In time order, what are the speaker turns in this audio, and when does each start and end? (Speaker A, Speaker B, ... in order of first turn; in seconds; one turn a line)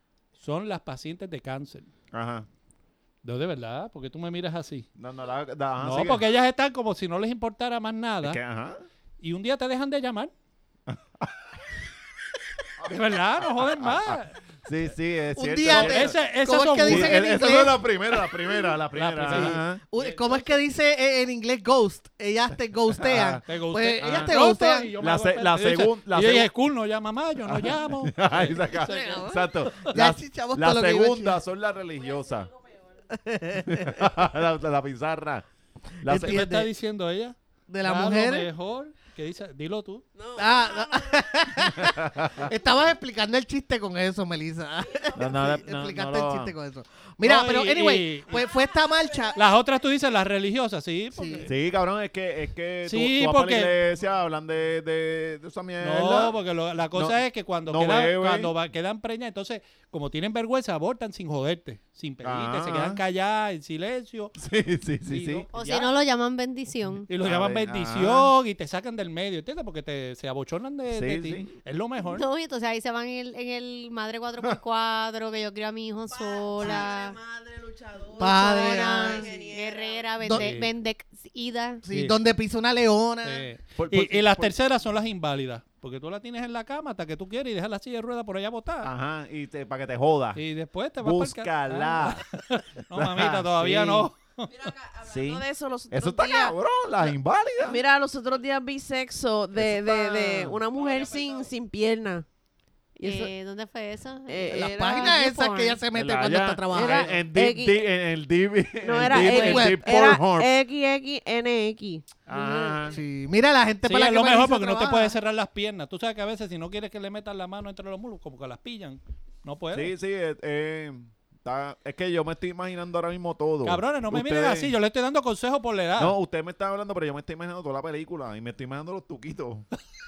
Speaker A: 0.4-1.9
Speaker B: 2.1-2.5
Speaker A: 3.2-4.9
Speaker B: 5.0-6.3
Speaker A: 5.8-8.4
Speaker B: 8.2-8.8
Speaker A: 9.2-10.3
Speaker B: 10.9-11.3
Speaker B: 12.8-16.1
Speaker A: 12.8-14.4
Speaker C: 15.4-18.7
Speaker A: 15.7-17.4
Speaker B: 16.8-19.8
Speaker A: 18.9-20.6
Speaker C: 19.3-24.9
Speaker B: 22.9-23.4
Speaker A: 23.4-29.9
Speaker B: 24.0-24.3
Speaker B: 25.0-26.5
Speaker B: 27.4-32.5
Speaker C: 28.9-29.4
Speaker C: 29.9-31.4
Speaker C: 33.1-34.1
Speaker B: 33.6-35.5
Speaker B: 36.0-36.4
Speaker C: 36.0-36.7
Speaker A: 36.1-40.0
Speaker C: 37.7-38.5
Speaker D: 40.2-41.1
Speaker C: 40.4-49.4
Speaker B: 41.8-42.5
Speaker B: 45.1-46.5
Speaker A: 47.2-48.5
Speaker D: 48.5-49.4
Speaker A: 49.4-51.5
Speaker C: 51.1-51.5
Speaker B: 51.4-56.4
Speaker A: 52.9-53.7
Speaker A: 55.8-64.3
Speaker B: 56.9-58.5
Speaker B: 62.2-63.0
Speaker B: 64.4-65.5
Speaker A: 65.1-65.9
Speaker E: 65.5-67.1
Speaker A: 67.1-72.3
Speaker B: 67.2-68.3
Speaker B: 70.9-71.5
Speaker E: 72.0-77.2
Speaker D: 76.2-80.0
Speaker C: 78.2-79.3
Speaker E: 78.2-81.8
Speaker C: 80.2-80.5
Speaker A: 80.3-80.7
Speaker C: 81.8-83.5
Speaker A: 81.9-82.2
Speaker A: 83.2-88.9
Speaker B: 83.8-84.5
Speaker B: 88.8-90.4
Speaker A: 90.4-94.6
Speaker B: 91.0-92.2
Speaker B: 92.9-94.1
Speaker D: 94.5-96.5
Speaker B: 95.0-97.8
Speaker D: 97.6-102.3
Speaker B: 99.5-100.6
Speaker D: 103.0-103.3
Speaker E: 103.0-105.8
Speaker D: 104.3-105.2
Speaker C: 104.5-107.2
Speaker B: 105.9-110.5
Speaker D: 106.7-107.8
Speaker D: 108.8-112.9
Speaker C: 109.1-110.0
Speaker E: 109.3-109.7
Speaker B: 112.3-113.0
Speaker C: 112.9-115.2
Speaker A: 113.8-119.9
Speaker B: 119.7-124.7
Speaker A: 123.6-126.2
Speaker B: 126.0-129.7